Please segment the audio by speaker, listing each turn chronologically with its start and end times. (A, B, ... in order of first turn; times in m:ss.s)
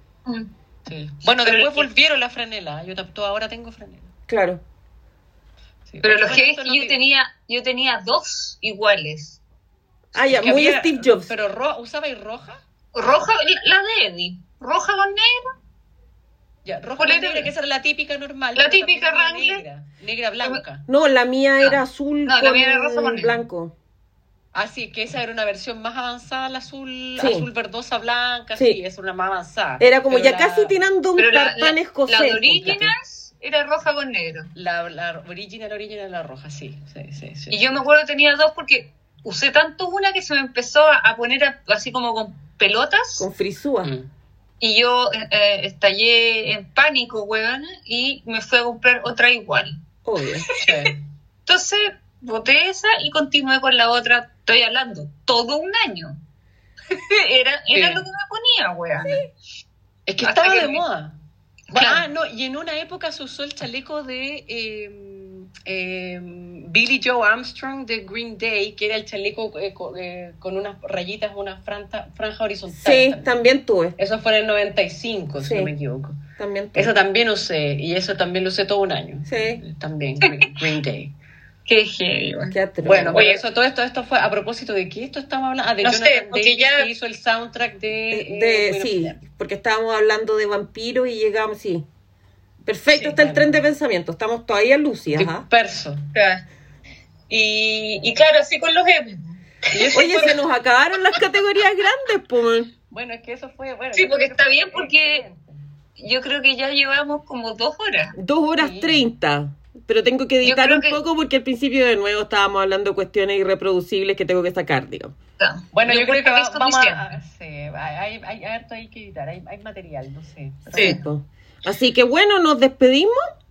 0:00.9-0:04.1 A
0:01.4-0:01.9 B
0:04.3-0:04.6 C
0:05.9-0:07.0 A
0:06.0-0:09.4 B
0:10.1-0:11.3 C
0:10.2-0:12.6 A
0:12.9-0:15.5 B
0:16.6-0:20.8 A
0:17.0-0:17.5 B
0:18.6-0:19.6 B
0:20.9-0:23.7 C
0:21.6-0:23.4 B
0:24.5-0:30.7 A
0:27.2-0:27.4 C
0:29.8-0:32.9 C
0:31.2-0:34.5 B
0:34.6-0:37.8 A
0:37.5-0:43.3 B
0:43.2-0:43.9 C
0:44.6-0:49.8 B
0:50.0-0:50.5 C
0:50.4-0:50.9 B
0:50.6-0:51.0 A
0:51.4-0:56.2 B
0:56.9-0:59.2 B
0:57.7-0:58.0 A
1:00.1-1:01.2 A
1:00.2-1:00.8 B
1:01.7-1:13.4 A
1:01.7-1:02.0 B
1:12.7-1:14.0 C
1:14.0-1:16.2 A
1:15.4-1:15.7 C
1:16.4-1:16.9 C
1:16.7-1:21.2 A
1:19.3-1:19.6 C
1:20.2-1:20.5 B
1:21.7-1:22.6 B
1:22.5-1:23.2 C
1:22.8-1:29.2 A
1:23.1-1:23.4 B
1:25.8-1:26.9 B
1:28.1-1:31.8 C
1:32.6-1:35.4 C
1:32.9-1:33.6 A
1:35.2-1:36.1 A
1:36.1-1:36.4 B
1:37.3-1:40.4 B
1:39.7-1:40.3 A
1:39.9-1:42.7 C
1:42.9-1:45.6 A
1:44.0-1:45.2 B
1:46.0-1:48.2 B
1:48.2-1:55.1 C
1:48.6-1:49.1 A
1:50.4-1:51.0 B
1:55.4-1:57.0 B
1:55.7-2:01.0 A
2:00.7-2:03.2 C